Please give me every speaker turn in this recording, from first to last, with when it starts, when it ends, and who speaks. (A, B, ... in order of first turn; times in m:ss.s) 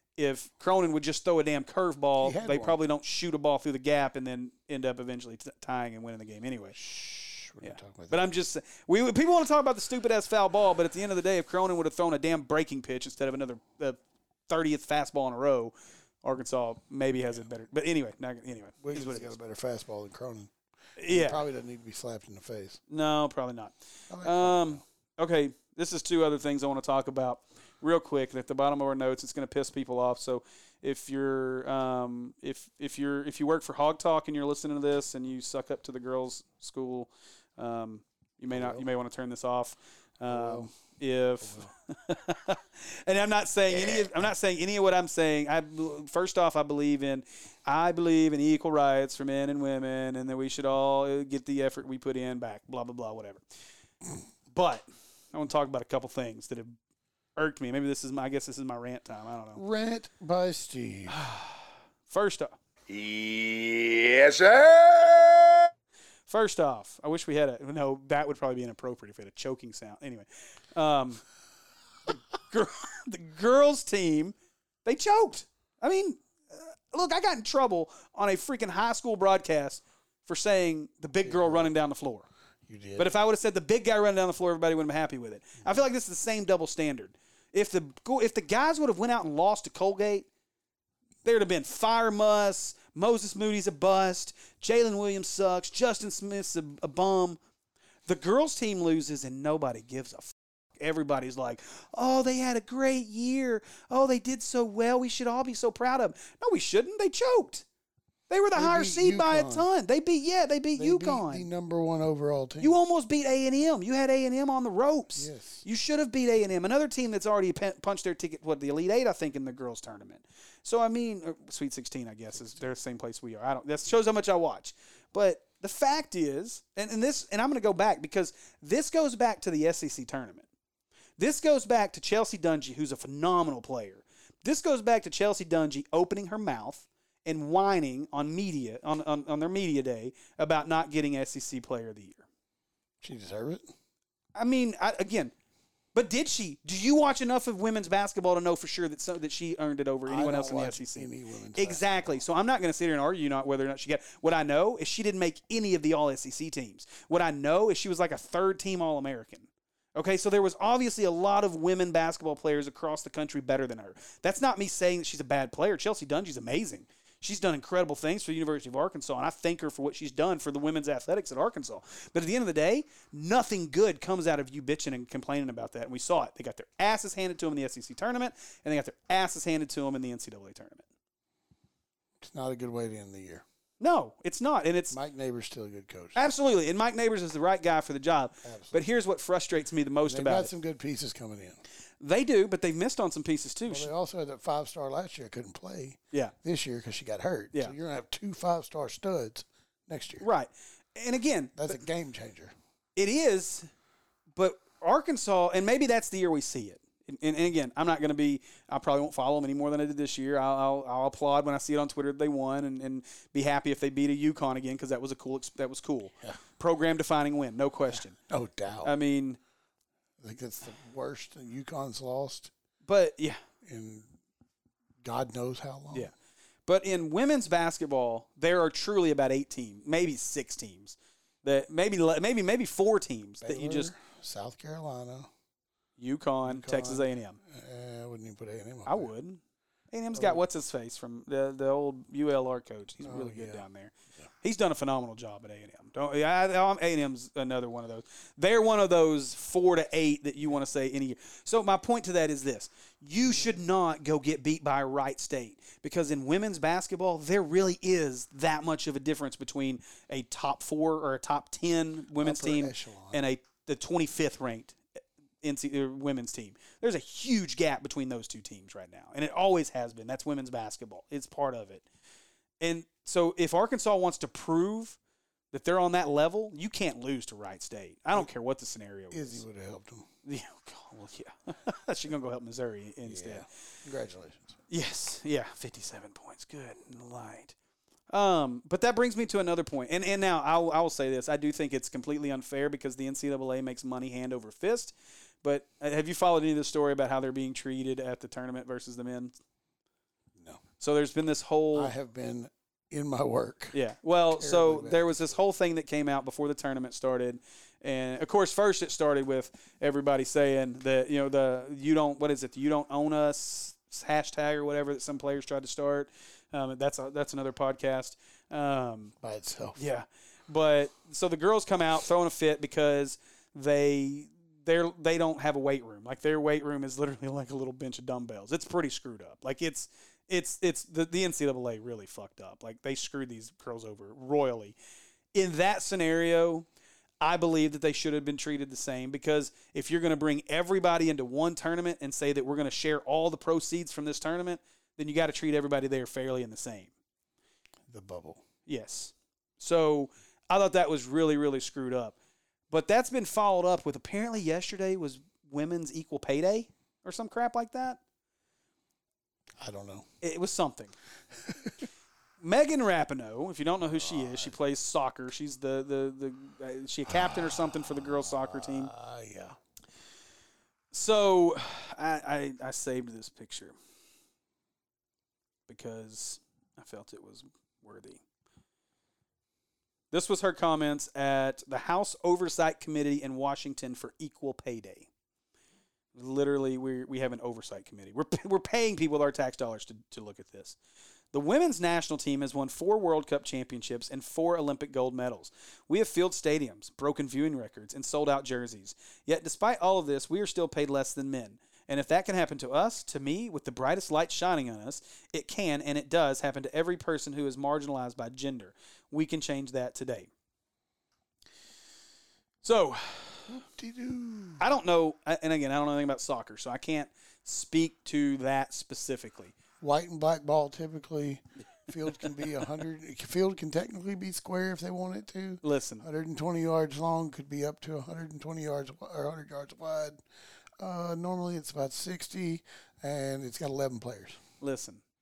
0:00.2-0:06.8 A
0:02.2-0:02.8 B
0:06.8-0:08.3 B
0:07.6-0:19.3 A
0:18.8-0:20.5 B
0:21.0-0:21.4 A
0:21.0-0:22.8 B
0:22.9-0:53.4 A
0:24.1-0:24.8 B
0:38.5-0:38.8 B
0:40.3-0:40.7 B
0:41.4-0:41.7 B
0:54.5-0:56.8 A
0:57.4-0:59.6 A
0:59.6-1:01.2 B
1:01.1-1:02.6 A
1:02.9-1:05.7 C
1:06.3-1:11.2 A
1:12.1-1:22.3 A
1:21.2-1:21.7 B
1:22.7-1:23.1 B
1:23.0-1:30.3 A
1:31.2-1:37.4 A
1:38.1-1:47.6 A
1:48.3-1:51.5 A
1:48.6-1:49.7 B
1:50.8-1:52.8 B
1:52.6-2:10.5 A
1:55.2-1:55.6 B
2:11.2-2:22.3 A
2:23.0-2:23.7 B
2:24.4-2:25.3 A
2:26.0-3:00.8 A
2:30.1-2:32.2 B
3:02.2-3:03.4 B
3:03.8-3:05.0 A
3:04.9-3:06.2 B
3:06.2-3:10.5 A
3:08.4-3:08.8 B
3:10.1-3:11.6 B
3:12.0-3:13.9 A
3:13.7-3:20.2 B
3:20.2-3:21.8 A
3:21.6-3:22.5 B
3:23.0-3:23.7 A
3:24.4-3:38.2 A
3:37.9-3:39.0 B
3:38.8-3:39.4 A
3:40.2-3:42.5 B
3:42.8-3:43.4 A
3:43.6-3:44.1 B
3:45.0-3:46.1 B
3:46.7-3:53.9 A
3:53.4-3:55.3 B
3:56.0-3:57.4 A
3:56.5-3:59.1 B
3:58.9-3:59.4 A
3:59.9-4:24.8 A
4:00.1-4:00.4 B
4:03.0-4:03.6 B
4:22.2-4:23.2 B
4:25.4-4:31.9 A
4:32.6-4:35.0 A
4:35.5-4:39.4 A
4:39.1-4:40.1 B
4:40.3-4:43.5 A
4:43.1-4:44.6 B
4:44.7-4:47.6 A
4:48.1-4:59.4 A
5:00.8-5:01.9 A
5:01.7-5:03.8 B
5:03.7-5:19.1 A
5:04.3-5:05.4 B
5:19.2-5:19.8 B
5:19.8-5:34.8 A
5:35.3-5:36.7 A
5:37.2-5:46.9 A
5:47.9-5:48.4 B
5:48.7-5:52.2 A
5:52.7-5:58.0 A
5:59.6-6:00.1 B
6:00.2-6:00.9 A
6:01.4-6:01.8 B
6:02.4-6:08.9 A
6:03.9-6:04.6 B
6:07.1-6:09.6 B
6:10.9-6:13.7 A
6:15.7-6:18.2 A
6:20.1-6:25.1 A
6:26.2-6:30.8 A
6:31.3-6:50.3 A
6:52.6-6:53.6 A
6:53.5-6:54.7 B
6:54.6-6:59.6 A
6:59.8-7:10.2 B
7:05.6-7:06.0 A
7:10.8-7:14.4 B
7:14.6-7:15.0 A